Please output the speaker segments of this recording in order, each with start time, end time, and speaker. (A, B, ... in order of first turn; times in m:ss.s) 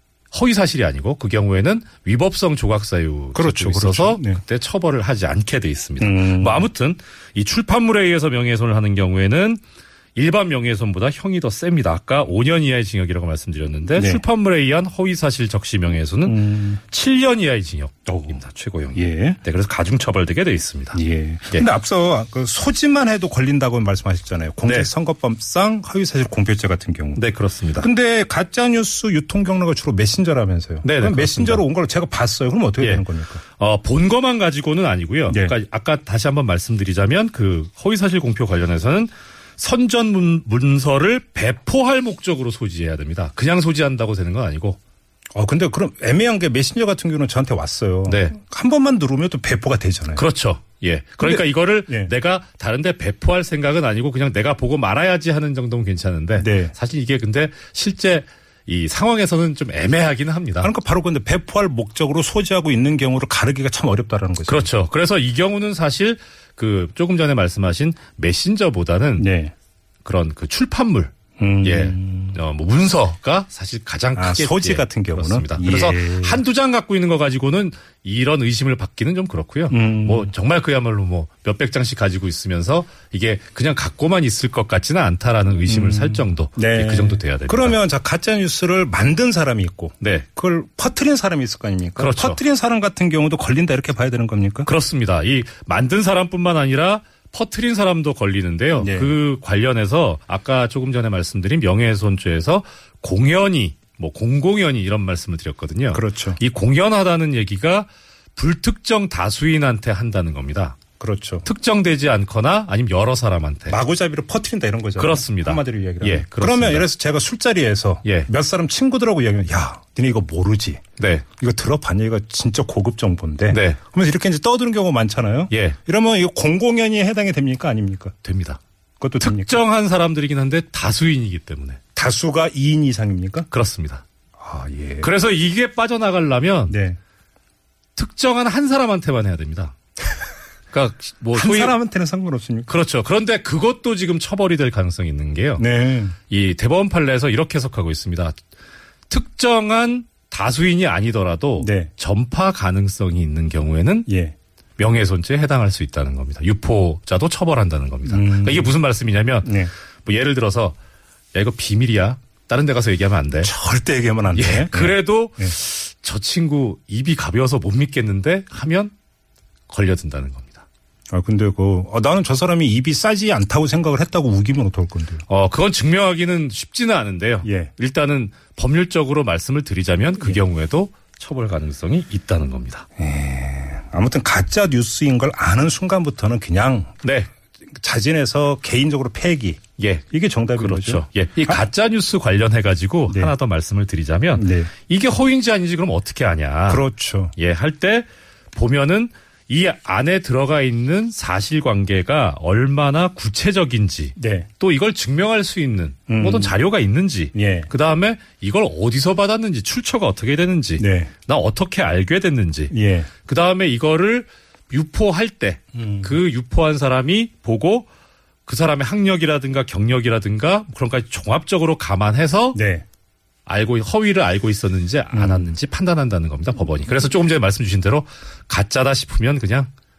0:00.3-0:09.6 A
0:03.3-0:04.4 B
0:06.0-0:06.7 B
0:10.1-0:21.7 A
0:13.9-0:14.2 B
0:16.2-0:16.8 B
0:18.1-0:18.3 B
0:18.9-0:19.4 B
0:20.9-0:27.2 B
0:24.6-0:24.9 A
0:27.1-0:27.9 A
0:27.8-0:33.4 B
0:30.8-0:31.6 A
0:32.8-0:44.8 A
0:35.3-0:35.5 B
0:45.3-0:50.2 B
0:48.1-0:48.3 A
0:50.1-1:00.7 A
0:51.2-0:52.1 B
0:56.4-0:56.7 B
1:00.6-1:04.7 B
1:04.5-1:09.3 A
1:09.2-1:09.5 B
1:10.0-1:27.8 A
1:11.4-1:12.4 B
1:14.1-1:16.4 B
1:19.7-1:20.3 B
1:25.6-1:34.7 B
1:30.0-1:30.3 A
1:32.0-1:32.4 A
1:34.6-1:50.8 A
1:38.8-1:39.1 B
1:45.9-1:46.4 B
1:51.0-1:51.5 B
1:51.4-1:53.8 A
1:53.7-2:00.8 B
1:55.0-1:56.9 A
1:58.0-1:58.3 A
2:01.0-2:01.2 A
2:01.4-2:08.1 B
2:03.5-2:03.8 A
2:05.5-2:05.8 A
2:08.2-2:08.6 A
2:09.0-2:09.6 B
2:09.2-2:11.8 A
2:12.0-2:13.5 B
2:13.5-2:14.0 A
2:14.4-2:15.1 B
2:15.0-2:16.8 A
2:16.7-2:17.0 B
2:17.9-2:19.8 A
2:20.7-2:21.8 A
2:21.3-2:22.7 B
2:22.7-2:25.6 A
2:25.6-2:26.2 B
2:26.3-2:28.4 A
2:29.1-2:34.1 A
2:31.6-2:31.9 B
2:34.1-2:34.3 B
2:34.8-2:40.8 A
2:38.1-2:38.8 B
2:39.4-2:39.7 B
2:41.3-2:43.5 A
2:43.4-2:45.5 B
2:44.3-2:48.9 A
2:49.7-2:50.6 A
2:51.1-2:55.2 B
2:55.3-3:02.8 A
2:57.4-2:57.7 B
3:03.0-3:07.0 B
3:07.0-3:07.3 A
3:07.7-3:09.6 B
3:09.8-3:16.8 A
3:10.1-3:11.6 B
3:13.1-3:13.4 B
3:14.3-3:14.7 B
3:16.7-3:17.3 B
3:17.4-3:37.9 A
3:24.2-3:24.5 B
3:26.1-3:26.6 B
3:27.3-3:27.7 B
3:30.8-3:31.1 B
3:32.7-3:33.1 B
3:35.7-3:36.2 B
3:38.4-3:42.6 A
3:42.5-3:42.8 B
3:43.4-3:49.7 A
3:45.1-3:45.5 B